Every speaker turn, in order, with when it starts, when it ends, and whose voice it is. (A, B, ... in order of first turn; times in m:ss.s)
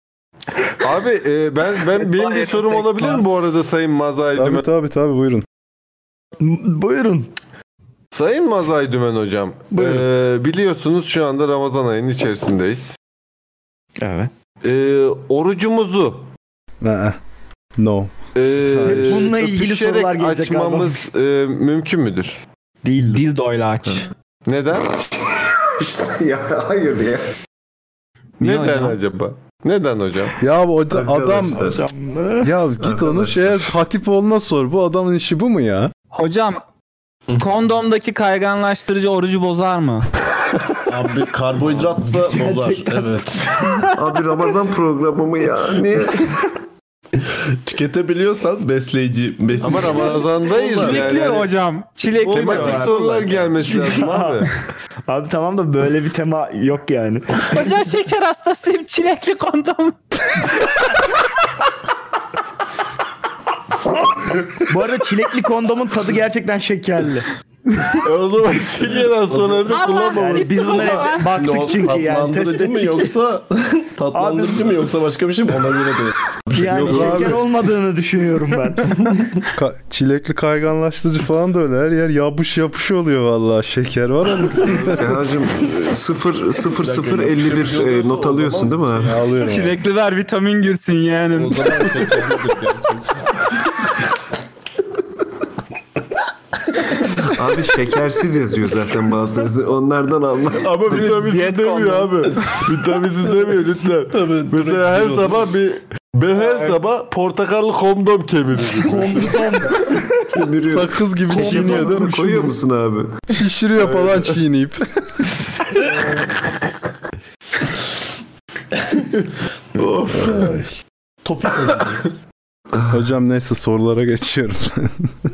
0:00.8-0:04.6 A
0:02.1-0:03.2 B
0:04.3-0:05.4 C
0:06.4-0:07.3 D
0:08.1-0:13.0 A
0:09.7-0:10.0 D
0:14.0-0:14.3 D
0:14.6-0:16.3 A
0:16.8-0:17.2 C
0:17.8-0:18.1 C
0:18.3-0:22.4 A
0:18.6-0:21.0 D
0:22.8-0:23.2 D
0:23.0-0:24.1 B
0:24.4-0:25.0 A
0:25.8-0:27.3 E
0:28.4-0:30.3 A
0:28.4-0:29.0 B
0:30.4-0:31.6 C
0:30.9-0:31.8 E
0:31.6-0:32.5 D
0:32.4-0:35.9 C
0:32.8-0:33.7 E
0:36.1-0:36.6 B
0:37.4-0:40.1 B
0:40.8-0:43.8 F
0:42.6-0:42.9 D
0:43.9-0:46.4 E
0:47.6-0:51.3 F
0:49.6-0:51.5 A
0:50.8-0:53.3 B
0:52.2-0:54.5 A
0:52.3-0:53.8 F
0:53.7-0:54.5 D
0:55.0-0:57.4 D
0:57.5-1:00.5 B
1:04.6-1:07.3 D
1:08.0-1:10.9 A
1:09.3-1:09.8 F
1:10.1-1:13.1 D
1:10.7-1:17.3 F
1:14.1-1:14.8 D
1:16.5-1:19.1 D
1:16.9-1:17.4 C
1:19.5-1:25.0 C
1:24.7-1:29.2 E
1:26.8-1:29.2 F
1:29.0-1:29.8 C
1:29.4-1:31.9 B
1:31.3-1:33.4 F
1:37.1-1:41.3 E
1:40.8-1:41.4 F
1:40.8-1:49.4 A
1:41.4-1:42.1 D
1:44.1-1:45.5 F
1:46.4-1:46.7 D
1:48.8-1:50.0 D
1:50.3-1:53.2 E
1:50.6-1:52.5 C
1:51.3-1:52.0 F
1:53.3-1:55.3 C
1:59.8-2:00.6 A
2:00.1-2:00.6 F
2:00.3-2:00.6 C
2:01.2-2:02.1 F
2:02.9-2:05.1 C